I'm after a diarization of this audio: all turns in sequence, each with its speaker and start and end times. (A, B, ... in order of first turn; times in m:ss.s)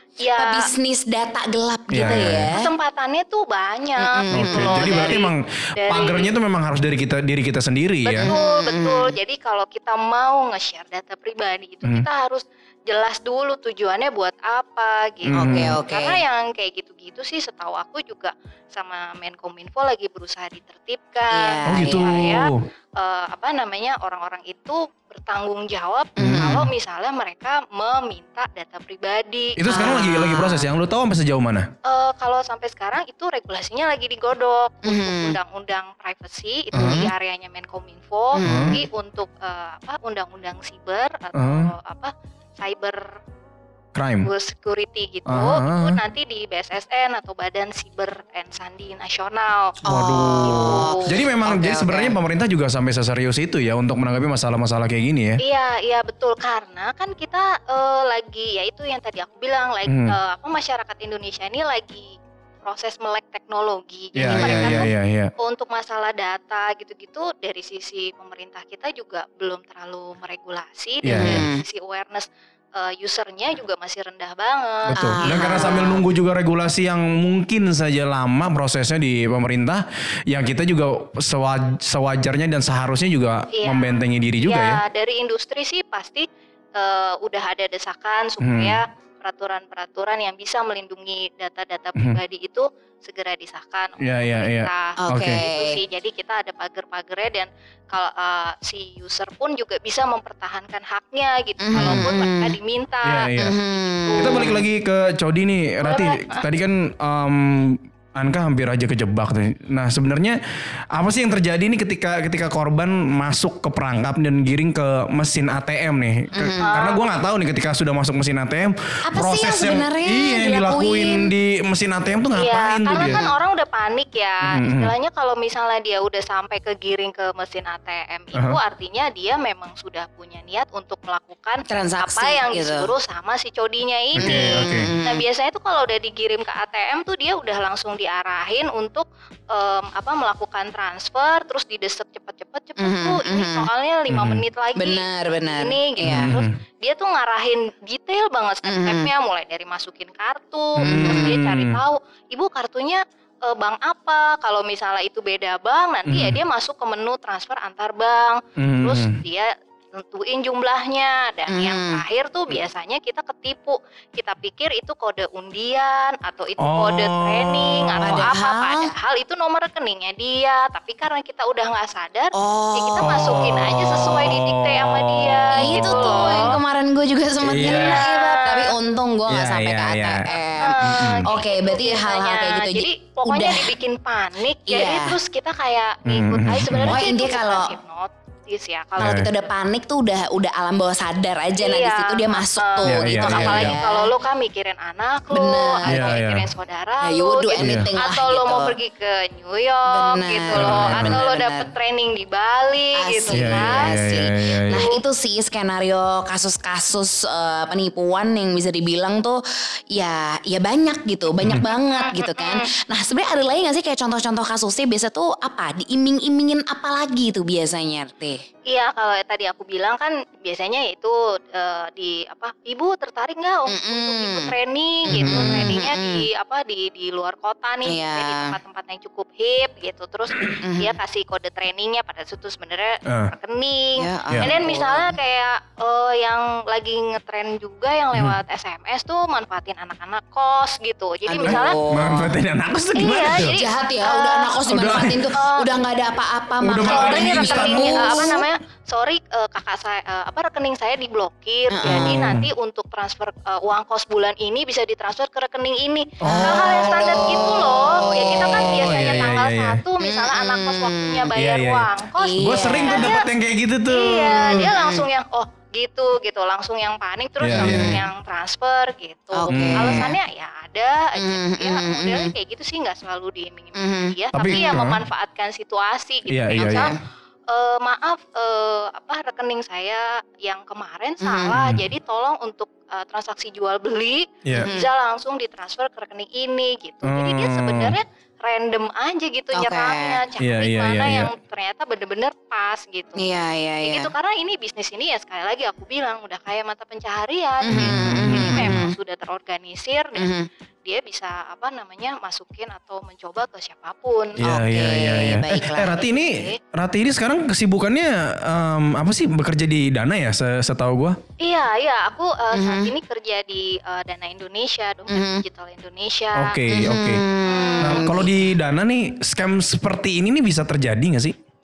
0:00.2-0:00.7 A
0:00.3-0:02.7 B
0:01.9-0:02.5 C
0:02.0-0:06.3 A
0:04.0-0:05.2 B
0:04.3-0:08.3 C
0:08.0-0:29.9 A
0:08.2-0:09.2 B
0:15.2-0:15.8 C
0:15.3-0:16.2 B
0:21.3-0:22.2 B
0:21.7-0:22.6 C
0:26.2-0:26.6 B
0:26.2-0:26.7 C
0:29.6-0:31.7 C
0:29.6-0:30.7 B
0:31.8-0:43.1 A
0:34.8-0:35.4 B
0:36.7-0:37.1 B
0:36.7-0:37.1 C
0:38.3-0:38.8 B
0:38.4-0:38.8 C
0:41.3-0:41.7 C
0:43.9-0:44.3 C
0:44.2-0:49.8 A
0:45.3-0:46.0 C
0:49.8-0:52.2 B
0:49.8-0:55.4 C
0:50.4-0:51.1 A
0:55.4-1:15.9 A
0:59.9-1:00.2 C
1:04.1-1:05.3 C
1:04.2-1:04.9 B
1:11.0-1:11.4 C
1:11.1-1:11.6 B
1:14.9-1:24.8 C
1:14.9-1:16.0 B
1:23.5-1:44.6 A
1:28.4-1:28.8 C
1:34.0-1:35.4 C
1:35.0-1:35.8 B
1:41.6-1:42.5 B
1:41.8-1:42.1 C
1:43.0-1:43.5 C
1:43.4-1:44.6 B
1:44.2-1:50.4 C
1:45.8-1:46.4 A
1:50.9-2:03.2 C
1:56.3-1:56.7 B
1:56.6-1:57.0 A
1:59.0-2:01.3 B
2:02.3-2:56.6 A
2:02.9-2:03.3 B
2:04.4-2:04.9 C
2:11.7-2:12.9 B
2:14.1-2:14.9 C
2:14.2-2:15.2 B
2:22.8-2:23.7 B
2:24.1-2:24.4 C
2:24.8-2:26.3 B
2:26.0-2:26.5 C
2:28.6-2:29.1 B
2:30.8-2:31.8 C
2:30.8-2:31.4 B
2:36.1-2:36.4 C
2:38.6-2:39.2 C
2:41.5-2:42.0 B
2:46.6-2:48.3 C
2:48.0-2:48.9 B
2:52.3-2:53.6 B
2:53.0-2:56.5 C
2:55.6-3:03.8 B
2:57.4-2:58.0 C
2:57.6-2:58.8 A
2:59.3-3:01.2 C
3:00.6-3:09.3 A
3:04.7-3:05.2 B
3:06.0-3:07.0 C
3:06.7-3:07.7 B
3:09.0-3:14.1 B
3:09.0-3:09.3 C
3:11.6-3:23.9 A
3:12.8-3:13.7 C
3:15.3-3:16.2 B
3:15.9-3:16.5 C
3:17.0-3:18.8 B
3:17.6-3:17.9 C
3:19.9-3:21.7 B
3:20.5-3:21.2 C
3:22.9-3:29.4 B
3:23.3-3:24.9 C
3:24.4-3:25.0 A
3:29.9-3:38.4 B
3:31.6-3:32.7 A
3:38.7-4:01.8 A
3:43.7-3:44.5 B
3:45.0-3:46.2 B
3:45.1-3:45.7 C
3:47.8-3:48.6 B
3:50.6-3:50.9 B
3:53.1-3:53.3 C
3:54.0-3:55.2 B
4:01.2-4:02.3 B
4:01.4-4:03.6 C
4:02.9-4:04.6 A
4:03.3-4:08.4 B
4:04.7-4:05.3 C
4:05.3-4:05.7 A
4:06.6-4:08.3 C
4:06.8-4:23.3 A
4:11.7-4:12.3 B
4:11.8-4:12.5 C
4:16.2-4:17.4 C
4:16.2-4:19.3 B
4:18.5-4:19.8 C
4:20.0-4:21.3 B
4:21.3-4:21.9 C
4:22.2-4:23.2 B
4:22.4-4:24.7 C
4:23.9-4:36.9 A
4:24.5-4:25.0 B
4:27.4-4:28.0 C
4:27.5-4:28.0 B
4:29.3-4:30.2 B
4:29.5-4:30.1 C
4:31.2-4:32.3 B
4:33.8-4:34.8 B
4:34.3-4:35.0 C
4:36.3-4:36.9 C
4:36.5-4:37.0 B
4:37.5-4:53.2 A
4:41.2-4:41.6 B
4:44.4-4:44.7 C
4:44.5-4:44.9 B
4:47.0-4:48.0 C
4:49.5-4:50.2 B
4:50.4-4:51.3 C
4:53.2-4:54.1 B
4:53.8-5:00.3 A
4:57.6-4:58.9 B
4:57.7-4:58.8 C
5:00.2-5:00.5 B
5:00.8-5:04.4 A
5:04.4-5:11.2 C
5:04.4-5:06.0 B
5:06.0-5:06.6 A
5:11.4-5:16.6 A
5:12.5-5:12.9 B
5:15.1-5:15.4 B
5:16.3-5:17.2 C
5:16.7-5:18.3 B
5:17.4-5:18.1 A
5:17.8-5:21.3 C